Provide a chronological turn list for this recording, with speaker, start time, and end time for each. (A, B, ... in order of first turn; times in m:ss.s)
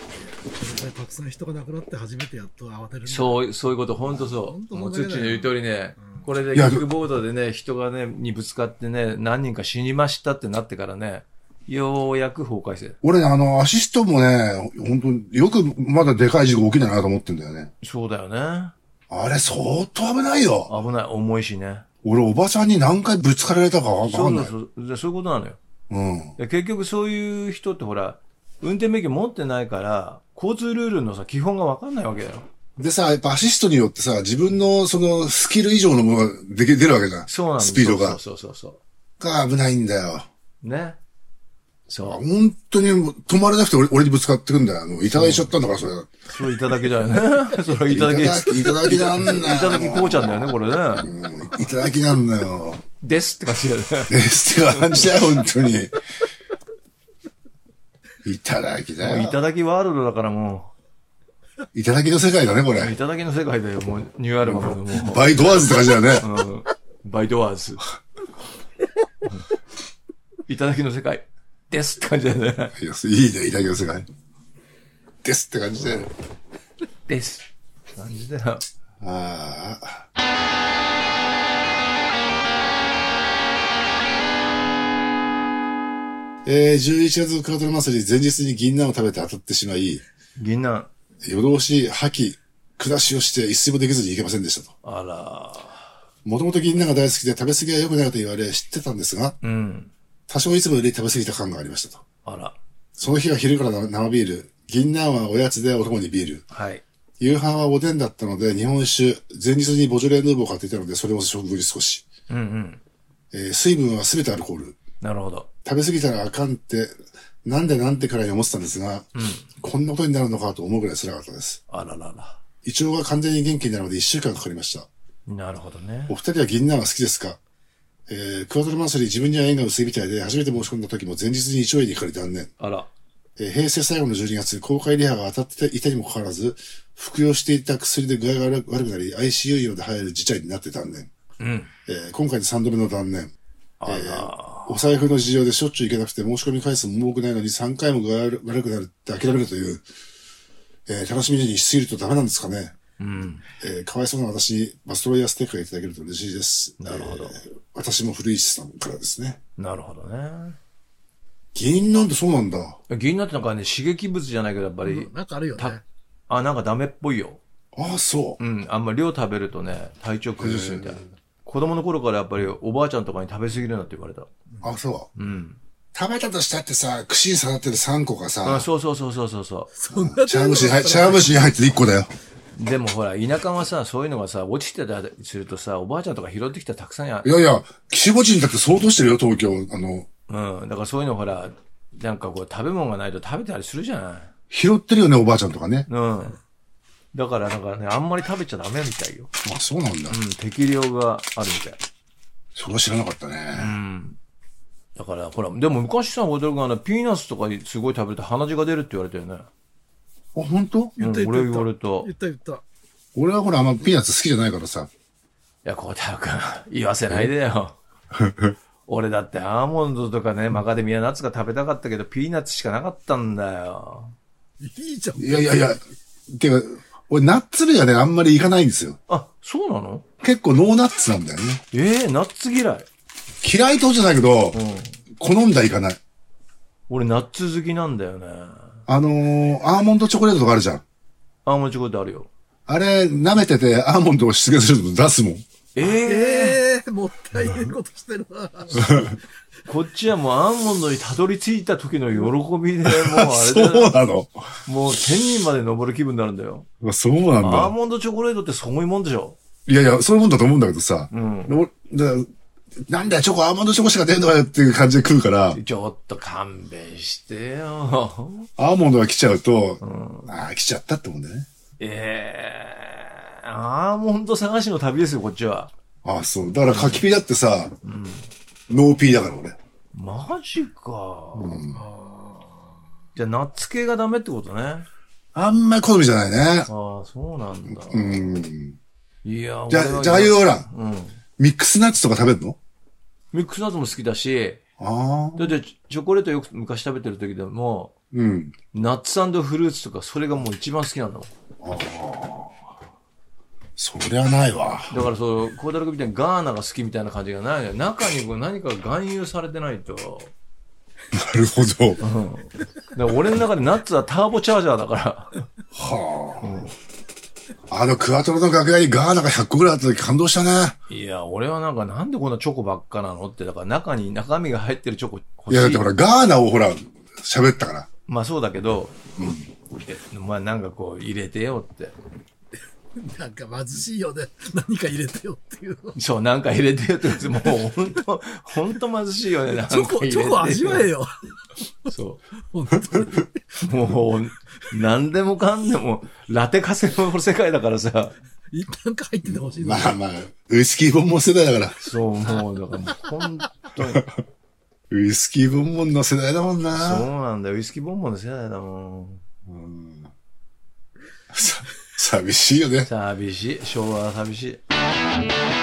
0:00.2-0:06.2 A
0:03.1-0:13.0 B
0:06.5-0:06.9 C
0:13.0-0:17.7 C
0:17.8-0:18.8 B
0:19.1-0:20.7 C
0:20.7-0:21.9 B
0:22.0-0:24.5 C
0:24.1-0:25.6 B
0:25.9-0:26.4 C
0:26.4-0:32.5 B
0:32.8-0:38.2 C
0:37.3-0:38.8 B
0:39.2-0:40.3 C
0:40.6-0:41.0 B
0:41.9-0:42.2 B
0:42.0-0:46.1 C
0:45.1-0:45.5 B
0:46.3-0:51.1 B
0:47.9-0:52.8 C
0:53.0-0:55.2 B
0:54.1-0:56.0 C
0:58.2-0:59.4 C
0:59.0-1:00.7 B
1:01.7-1:02.9 C
1:02.8-1:07.8 B
1:04.4-1:06.3 C
1:10.5-1:12.8 B
1:12.8-1:14.1 C
1:15.2-1:16.1 C
1:17.1-1:18.7 B
1:19.0-1:20.1 C
1:26.4-1:30.0 C
1:30.4-1:30.9 B
1:31.2-1:34.7 C
1:34.8-1:35.9 B
1:36.2-1:39.4 C
1:39.4-1:39.9 B
1:40.3-1:42.0 C
1:42.2-1:42.6 B
1:43.0-1:46.4 C
1:46.5-1:46.8 B
1:47.2-1:52.1 C
1:52.3-1:52.8 B
1:53.3-1:54.8 C
1:55.0-1:55.5 B
1:55.6-2:01.6 C
1:59.2-1:59.5 B
2:01.7-2:02.4 B
2:02.6-2:04.9 C
2:05.3-2:06.2 B
2:06.1-2:07.4 C
2:08.1-2:12.5 C
2:12.6-2:12.9 B
2:13.4-2:21.1 C
2:21.4-2:21.7 B
2:21.9-2:23.3 C
2:23.8-2:24.9 B
2:23.9-2:29.8 C
2:30.9-2:32.8 C
2:33.0-2:33.5 B
2:33.6-2:39.4 C
2:36.8-2:37.4 B
2:39.6-2:40.6 B
2:41.6-2:42.8 C
2:42.9-2:47.4 B
2:44.8-2:45.8 A
2:47.7-2:48.4 C
2:48.4-2:54.3 B
2:50.4-2:51.1 C
2:54.6-2:55.1 C
2:55.2-2:55.6 B
2:55.9-2:58.7 C
2:58.4-2:59.7 B
2:59.7-3:01.6 A
2:59.9-3:02.1 C
3:02.6-3:07.3 B
3:07.2-3:10.1 C
3:10.3-3:14.3 B
3:14.5-3:15.9 C
3:15.9-3:16.4 B
3:17.1-3:19.3 B
3:19.4-3:20.2 C
3:20.1-3:21.8 B
3:22.6-3:23.8 C
3:23.5-3:24.2 B
3:25.0-3:29.5 B
3:30.3-3:31.0 C
3:31.0-3:32.6 A
3:31.0-3:32.1 B
3:33.2-3:34.9 C
3:35.6-3:37.8 B
3:38.1-3:38.6 C
3:38.9-3:44.2 B
3:44.6-3:45.6 A
3:45.2-3:49.0 C
3:49.1-3:50.0 B
3:50.2-3:51.6 C
3:51.7-3:52.9 B
3:53.4-3:54.6 C
3:54.5-3:55.0 B
3:55.1-3:56.0 C
3:56.9-3:58.8 B
3:58.9-4:00.8 C
4:01.4-4:02.3 B
4:02.7-4:05.4 C
4:05.8-4:06.6 B
4:05.9-4:09.1 A
4:08.8-4:09.2 C
4:09.7-4:13.9 B
4:12.8-4:14.6 C
4:14.6-4:16.7 B
4:16.8-4:17.7 C
4:17.4-4:19.4 B
4:19.7-4:22.3 C
4:21.1-4:21.6 B
4:22.9-4:25.6 C
4:25.5-4:28.5 B
4:28.6-4:31.5 C
4:29.8-4:30.3 B
4:31.8-4:35.7 B
4:36.0-4:37.7 C
4:36.7-4:37.0 B
4:37.8-4:38.3 B
4:38.7-4:39.6 C
4:39.9-4:41.6 B
4:41.4-4:41.8 C
4:41.7-4:42.7 A
4:43.2-4:44.9 B
4:45.3-4:46.7 C
4:46.7-4:48.3 B
4:47.7-4:48.8 C
4:49.2-4:51.2 B
4:49.7-4:50.7 C
4:51.4-4:52.6 C
4:53.3-4:54.6 B
4:54.8-4:55.6 C
4:55.4-4:57.9 B
4:58.1-4:58.6 C
4:58.7-5:01.3 B
5:01.6-5:02.6 C
5:03.8-5:05.1 C
5:04.9-5:10.3 B
5:11.1-5:12.0 C
5:12.0-5:15.5 B
5:15.7-5:16.7 C
5:16.4-5:16.7 B
5:17.7-5:20.8 C
5:20.9-5:25.9 B
5:25.5-5:27.9 C
5:28.1-5:29.1 B
5:29.2-5:29.5 C
5:29.8-5:32.0 B
5:33.0-5:36.0 A
5:36.0-5:40.9 B
5:39.6-5:41.1 A
5:41.9-5:42.2 B
5:42.5-5:43.6 A
5:43.6-5:48.2 B
5:48.5-5:50.0 A
5:49.3-5:51.8 C
5:51.8-5:54.0 B
5:54.9-5:57.1 C
5:56.7-5:59.2 B
5:59.4-6:00.1 C
6:01.3-6:02.9 C
6:02.9-6:04.6 B